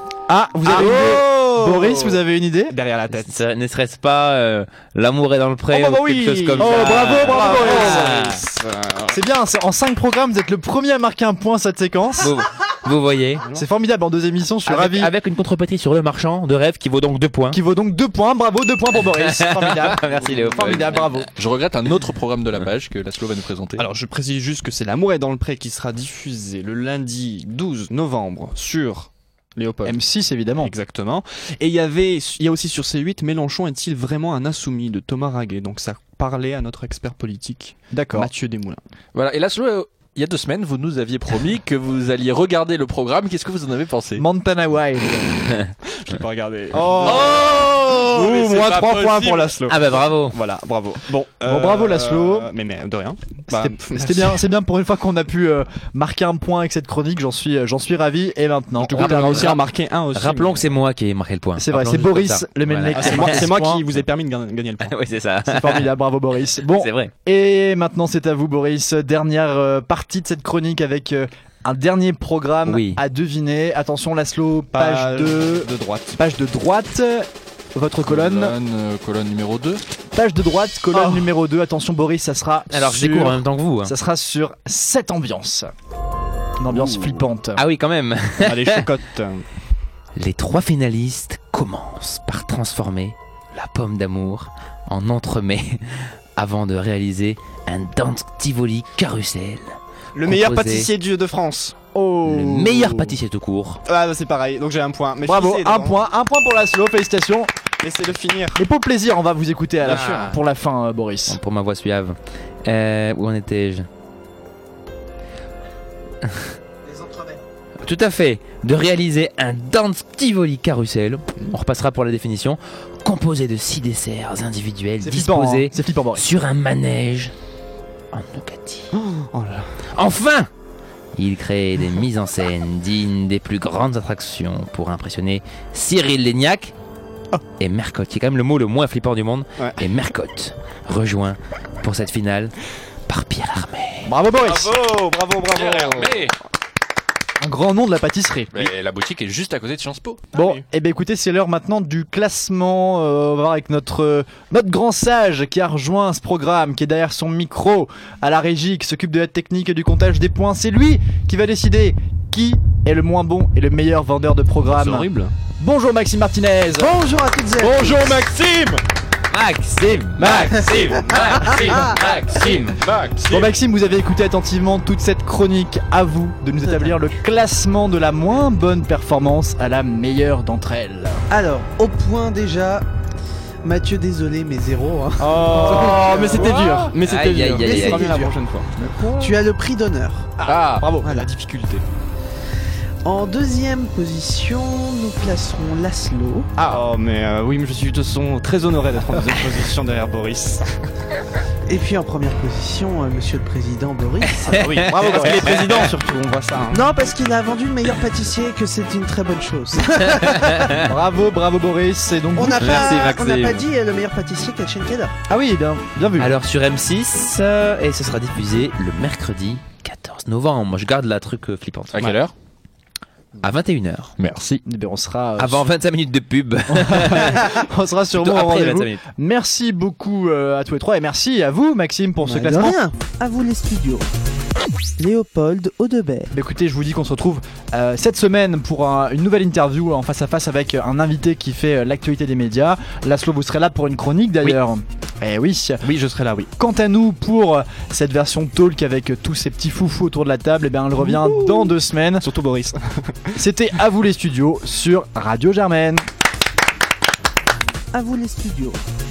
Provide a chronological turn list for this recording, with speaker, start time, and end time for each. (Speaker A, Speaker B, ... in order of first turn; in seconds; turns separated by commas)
Speaker A: 0.3-2.7, Speaker B: 0.6-3.4, Speaker C: 3.1-8.4, Speaker B: 5.7-9.2, Speaker A: 6.5-8.3, Speaker A: 9.1-12.3, Speaker C: 12.2-13.5, Speaker B: 13.4-13.6, Speaker A: 13.5-15.1, Speaker C: 14.7-17.6, Speaker A: 17.5-21.3, Speaker C: 19.1-21.0, Speaker B: 20.1-20.8, Speaker D: 21.4-23.8, Speaker B: 23.8-30.0, Speaker A: 29.8-30.7, Speaker B: 30.6-38.8, Speaker A: 37.9-38.3, Speaker D: 39.1-44.2, Speaker A: 44.2-45.5, Speaker B: 45.9-54.4, Speaker D: 47.0-49.3, Speaker A: 47.0-49.5, Speaker C: 49.7-50.4, Speaker A: 51.4-52.5, Speaker A: 53.5-59.6, Speaker B: 58.8-60.7, Speaker C: 59.0-63.5, Speaker A: 61.6-63.8, Speaker B: 62.9-65.0, Speaker C: 64.8-65.9, Speaker A: 65.5-78.5, Speaker C: 66.7-67.1, Speaker C: 72.7-73.0, Speaker B: 74.7-76.2, Speaker D: 78.0-79.8, Speaker A: 80.1-85.7, Speaker B: 80.9-81.3, Speaker C: 82.7-83.9, Speaker A: 86.6-87.6, Speaker B: 86.7-87.2, Speaker C: 87.5-88.9, Speaker B: 88.4-89.5, Speaker C: 90.2-100.9, Speaker B: 100.1-101.8, Speaker A: 101.9-103.1, Speaker C: 102.2-103.8, Speaker B: 103.9-106.0, Speaker A: 105.2-107.5, Speaker B: 107.8-108.6, Speaker A: 108.5-111.4, Speaker B: 109.8-110.4, Speaker C: 111.3-113.9, Speaker C: 116.2-116.5, Speaker C: 117.8-127.3, Speaker A: 125.0-126.3, Speaker C: 128.1-128.9, Speaker B: 128.9-129.7, Speaker C: 129.9-130.5, Speaker C: 131.1-136.7, Speaker C: 137.6-142.5, Speaker B: 139.6-139.8, Speaker C: 143.1-144.1, Speaker A: 144.0-144.8, Speaker D: 144.4-144.8, Speaker B: 144.6-146.2, Speaker D: 145.5-146.3, Speaker A: 147.4-148.5, Speaker D: 148.5-150.2, Speaker B: 150.3-150.6, Speaker A: 150.3-166.9, Speaker B: 164.6-165.3, Speaker E: 166.8-168.2, Speaker D: 167.9-168.8, Speaker C: 169.3-172.8, Speaker A: 170.3-170.6, Speaker D: 170.3-173.5, Speaker B: 170.3-171.9, Speaker E: 170.4-172.0, Speaker A: 173.2-181.2, Speaker E: 176.6-176.9, Speaker E: 181.3-182.8, Speaker E: 183.6-186.8, Speaker B: 185.2-189.3, Speaker D: 185.8-186.9, Speaker C: 187.0-188.2, Speaker E: 187.6-188.3, Speaker E: 188.9-190.3, Speaker D: 190.4-190.9, Speaker B: 190.4-191.8, Speaker E: 191.0-191.3, Speaker E: 193.0-196.5, Speaker B: 196.6-200.8, Speaker E: 201.7-205.5, Speaker C: 204.3-205.7, Speaker B: 204.5-206.8, Speaker E: 206.7-210.7, Speaker C: 210.5-210.9, Speaker A: 210.8-213.1, Speaker E: 212.3-215.1, Speaker C: 212.6-213.6, Speaker A: 215.3-216.4, Speaker C: 216.2-222.0, Speaker D: 221.9-222.3, Speaker C: 223.4-224.1, Speaker D: 224.2-224.6, Speaker A: 224.6-225.7, Speaker C: 225.4-227.6, Speaker A: 226.7-232.8, Speaker C: 228.1-229.0, Speaker E: 232.2-234.0, Speaker E: 235.0-236.3, Speaker A: 236.3-245.9, Speaker B: 245.8-246.5, Speaker A: 246.6-252.3, Speaker B: 251.0-253.4, Speaker A: 253.3-256.0, Speaker E: 257.9-258.8